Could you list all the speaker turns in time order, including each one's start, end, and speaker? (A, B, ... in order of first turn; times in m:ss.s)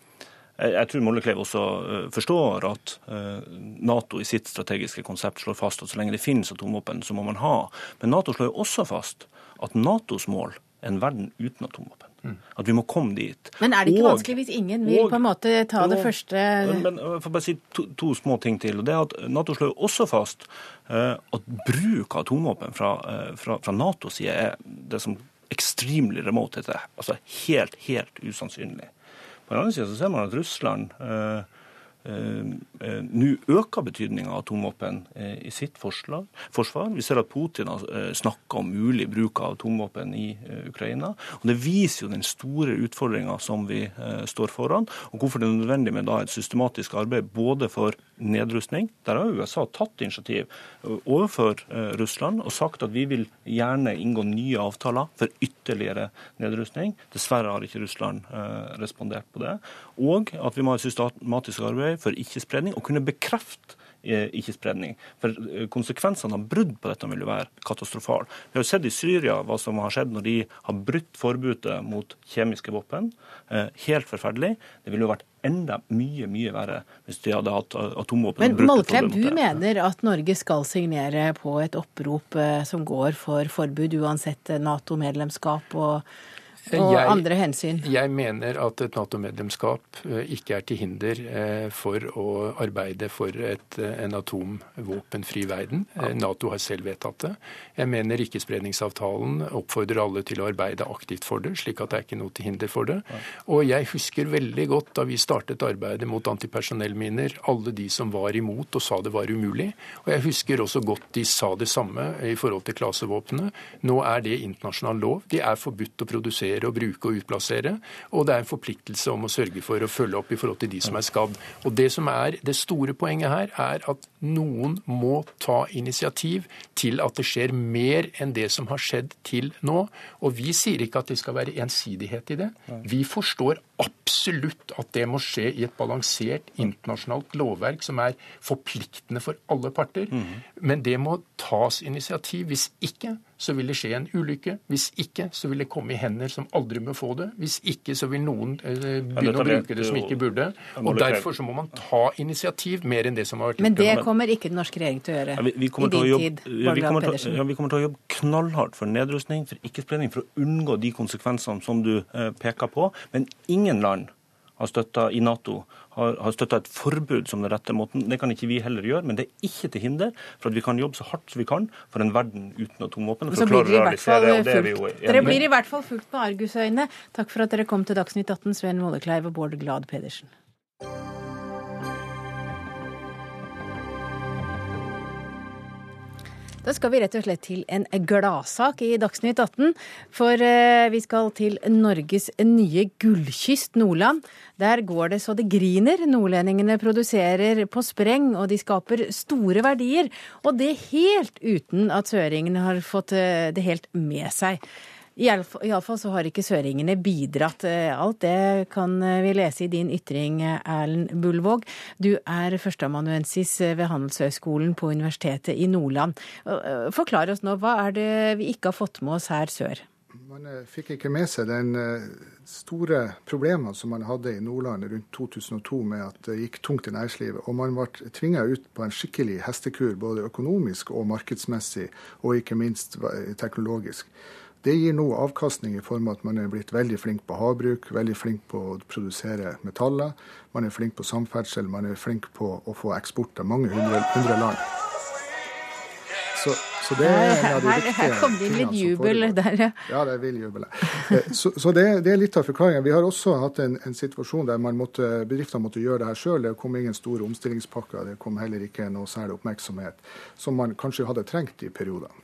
0:00.6-0:15.2 A
0:13.6-0:16.8 B
0:15.8-0:28.9 A
0:29.5-0:31.5 A
0:32.0-1:19.6 A
1:18.4-1:26.0 B
1:26.7-1:27.8 B
1:26.7-2:34.0 C
2:20.1-2:20.4 A
2:29.1-2:31.3 A
2:33.6-2:37.4 B
2:35.3-2:55.4 A
2:53.3-3:00.3 B
3:06.6-3:24.6 B
3:25.2-3:39.8 B
3:40.1-3:54.1 D
3:54.6-4:04.6 D
4:06.3-4:22.1 D
4:07.0-4:09.8 B